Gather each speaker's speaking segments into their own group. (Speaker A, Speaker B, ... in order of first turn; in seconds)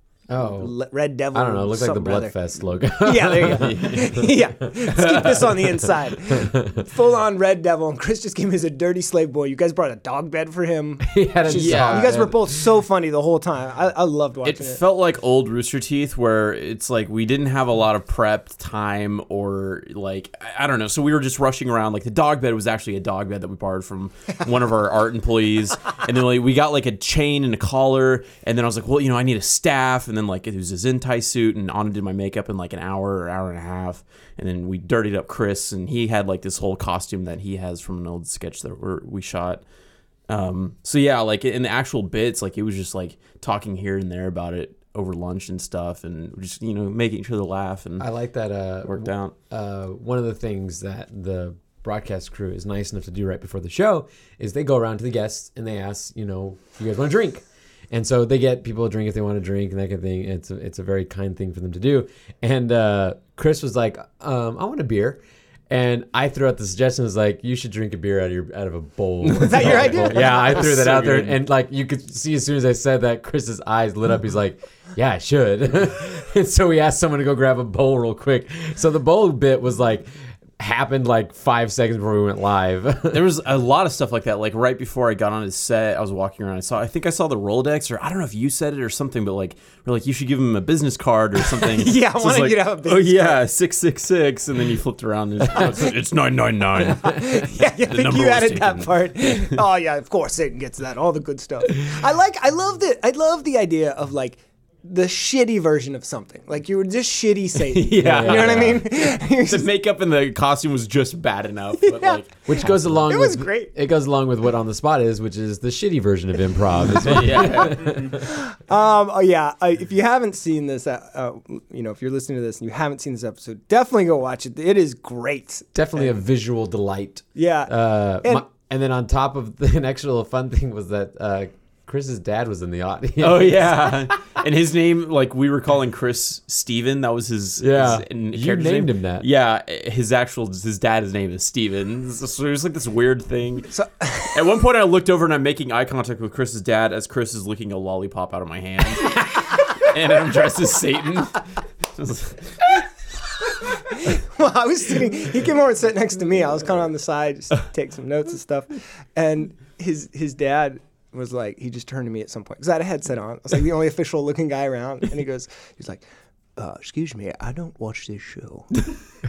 Speaker A: 0.3-0.7, 1.3-4.2, 4.8-6.7, 11.0-12.6, 48.0-83.2, 107.9-108.8, 112.5-118.2, 125.7-134.1, 137.6-139.3
Speaker B: 0.5-2.4, 2.9-14.8, 69.4-71.0, 91.6-93.4, 97.0-109.7, 111.8-113.7, 118.2-126.2, 127.3-128.5, 143.7-144.5, 154.0-166.0, 166.6-168.8
Speaker C: 3.4-4.2, 11.5-12.2, 14.4-39.6, 40.3-48.1, 48.8-49.3, 69.2-71.4, 83.1-99.6, 107.6-112.4, 116.8-118.1, 133.2-143.7, 144.3-151.4, 151.9-152.8